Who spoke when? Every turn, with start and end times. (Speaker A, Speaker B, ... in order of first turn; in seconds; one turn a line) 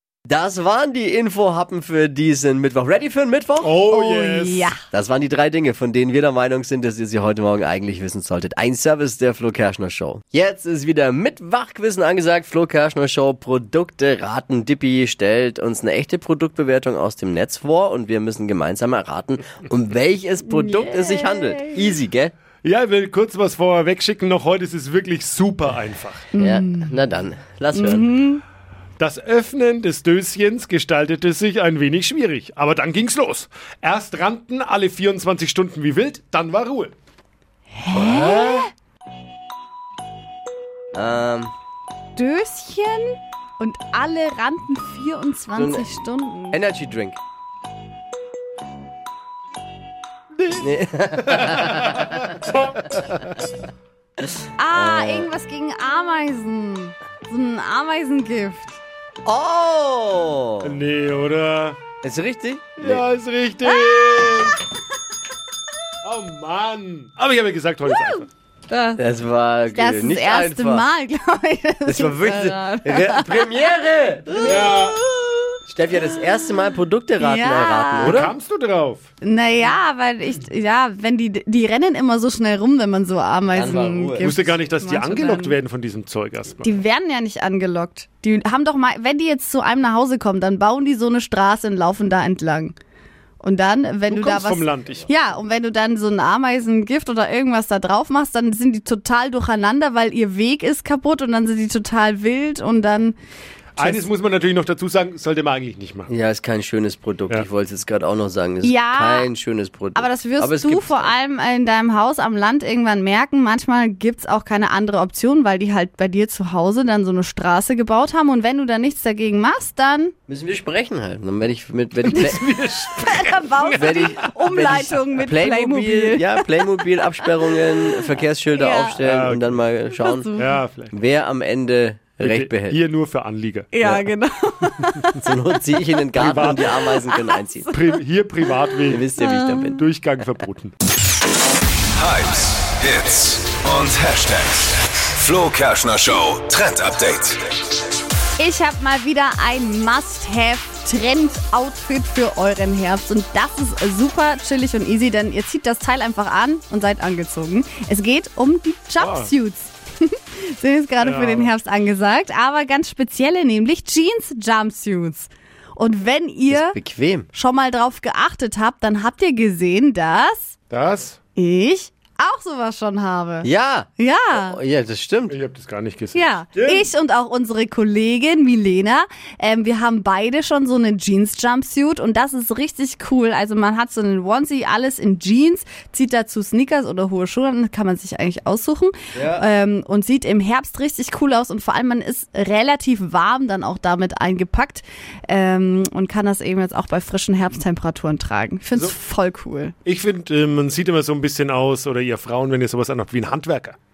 Speaker A: 0.3-3.7
Speaker B: 3.6-4.7
Speaker C: 3.9-4.8
Speaker A: 4.8-22.3
Speaker C: 20.5-21.9
Speaker B: 22.6-26.2
Speaker C: 26.3-27.0
Speaker A: 26.4-28.1
Speaker C: 27.7-28.4
Speaker B: 29.0-36.9
Speaker C: 37.7-38.7
Speaker A: 37.9-38.7
Speaker A: 40.9-41.5
Speaker C: 42.1-46.6
Speaker A: 45.6-45.9
Speaker A: 46.5-47.2
Speaker A: 50.4-52.2
Speaker B: 51.6-52.2
Speaker C: 54.6-58.8
Speaker A: 54.7-55.3
Speaker A: 59.2-60.8
Speaker B: 60.6-61.8
Speaker A: 62.0-63.0
Speaker B: 62.8-64.6
Speaker C: 63.8-64.3
Speaker B: 66.0-68.3
Speaker C: 68.7-69.0
Speaker A: 69.0-70.8
Speaker C: 69.7-73.6
Speaker A: 71.8-74.8
Speaker C: 74.3-75.6
Speaker B: 74.5-75.0
Speaker A: 75.7-78.3
Speaker C: 77.2-78.2
Speaker B: 78.0-79.0
Speaker C: 79.2-85.6
Speaker A: 83.5-84.3
Speaker B: 84.2-86.7
Speaker C: 86.6-92.7
Speaker C: 93.4-103.2
Speaker B: 94.1-95.1
Speaker B: 103.8-106.1
Speaker C: 103.8-104.0
Speaker A: 106.1-111.1
Speaker C: 108.6-109.3
Speaker C: 109.9-120.1
Speaker A: 120.3-122.4
Speaker B: 122.0-124.3
Speaker C: 122.1-126.4
Speaker A: 123.8-130.3
Speaker C: 127.9-129.0
Speaker B: 129.0-129.6
Speaker C: 130.0-130.6
Speaker B: 130.3-130.9
Speaker A: 130.9-132.8
Speaker B: 132.2-133.7
Speaker C: 133.7-135.2
Speaker A: 135.2-137.7
Speaker B: 136.2-136.7
Speaker C: 136.6-137.9
Speaker B: 137.7-139.0
Speaker A: 138.9-139.8
Speaker C: 139.2-139.8
Speaker B: 139.8-140.7
Speaker D: 141.9-147.4
Speaker C: 148.4-166.8
Speaker B: 159.0-159.3
Speaker B: 161.0-161.5
Speaker A: 166.5-167.3
Speaker C: 167.3-170.5
Speaker B: 170.7-171.2
Speaker C: 171.3-174.6
Speaker A: 173.4-175.3
Speaker B: 175.3-176.3
Speaker C: 176.1-199.7
Speaker A: 176.5-176.9
Speaker A: 189.1-189.4
Speaker B: 199.8-203.8